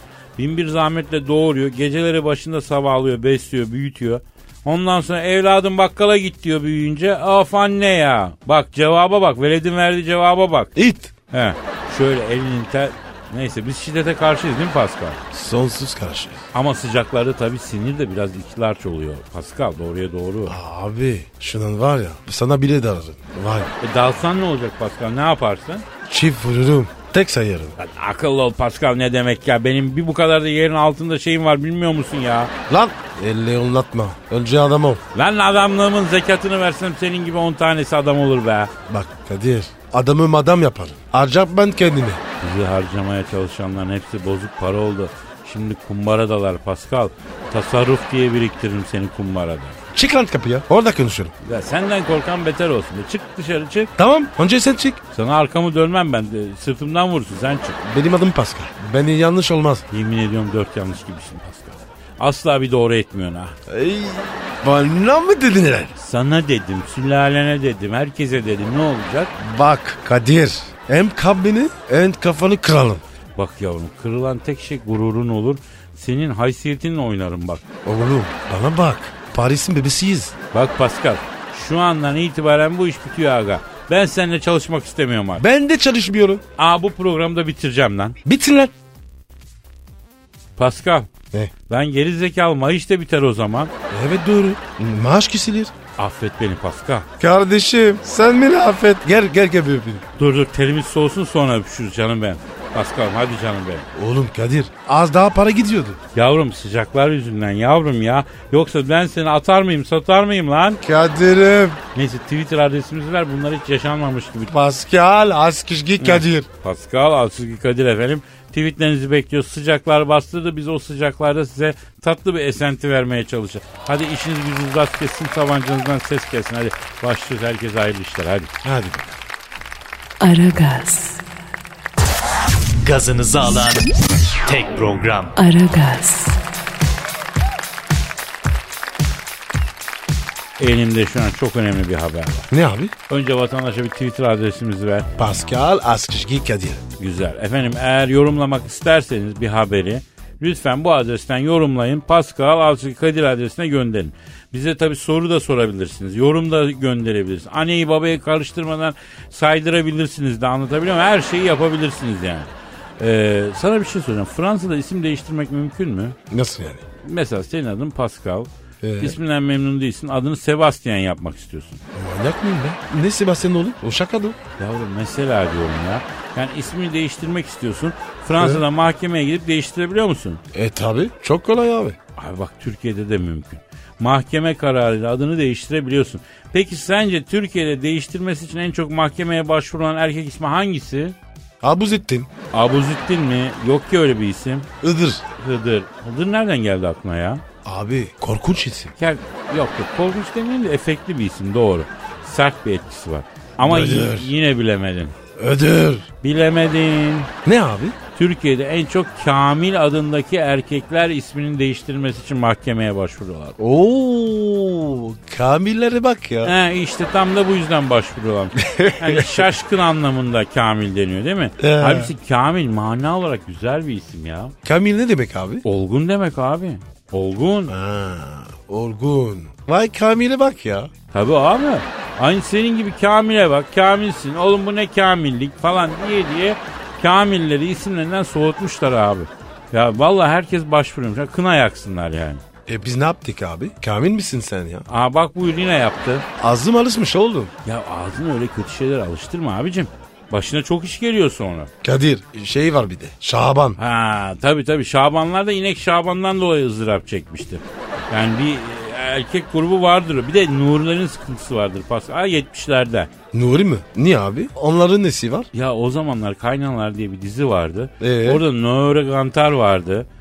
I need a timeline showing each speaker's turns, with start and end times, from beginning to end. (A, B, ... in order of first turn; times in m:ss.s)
0:00.4-0:10.7 A
0:10.7-0:11.1 B
0:11.3-0:15.2 A
0:15.3-0:16.4 B
0:16.5-0:20.6 A
0:20.4-0:23.8 B
0:23.8-0:25.8 A
0:26.1-0:27.7 B
0:27.8-0:32.5 A
0:32.7-0:35.0 B
0:35.1-0:38.7 A
0:38.9-0:42.2 B
0:42.4-0:49.8 A
0:49.9-0:51.3 B
0:51.4-0:53.9 A
0:54.0-0:55.0 B
0:55.1-0:57.8 A
0:57.8-0:59.8 B
0:59.9-1:03.6 A
1:03.7-1:05.9 B
1:06.0-1:09.3 A
1:09.4-1:13.0 B
1:13.4-1:17.6 A
1:17.8-1:20.3 B
1:20.5-1:25.4 A
1:25.4-1:26.4 B
1:26.6-1:28.2 A
1:28.2-1:28.7 B
1:30.6-1:31.1 A
1:31.7-1:33.7 A
1:33.9-1:35.7 B
1:36.0-1:37.0 A
1:37.2-1:40.0 B
1:40.2-1:43.8 A
1:43.9-1:46.0 B
1:46.1-1:50.8 A
1:50.8-1:51.8 B
1:51.9-1:54.5 A
1:54.5-1:56.5 B
1:56.0-2:08.5 A
2:08.6-2:09.2 B
2:10.2-2:11.2 C
2:12.8-2:13.9 D
2:14.4-2:15.3 D
2:15.3-2:16.4 C
2:20.6-2:22.5 A
2:22.5-2:22.9 B
2:23.1-2:25.1 A
2:25.2-2:26.8 B
2:27.0-2:46.2 A
2:46.3-2:46.8 B
2:47.0-2:48.5 A
2:48.8-2:49.2 B
2:49.0-2:51.8 A
2:51.9-2:54.4 B
2:54.6-3:00.4 A
2:58.4-2:58.6 B
3:00.5-3:02.0 B
3:02.2-3:11.2 A
3:11.6-3:12.3 B
3:12.5-3:14.7 A
3:14.8-3:15.2 B
3:15.4-3:17.4 A
3:17.6-3:18.9 B
3:19.0-3:25.2 A
3:23.6-3:24.3 B
3:25.4-3:26.1 B
3:26.2-3:27.3 A
3:27.4-3:28.0 B
3:28.1-3:33.6 A
3:33.6-3:36.5 B
3:36.4-3:44.5 A
3:38.6-3:39.4 B
3:41.6-3:42.1 B
3:44.6-3:45.6 B
3:45.6-3:47.7 A
3:47.7-3:50.9 B
3:51.1-4:02.4 A
4:02.6-4:04.8 B
4:04.9-4:06.2 A
4:06.4-4:07.5 B
4:07.6-4:11.7 A
4:11.8-4:13.8 B
4:13.8-4:23.1 A
4:23.3-4:25.5 B
4:25.5-4:30.0 A
4:28.0-4:28.4 B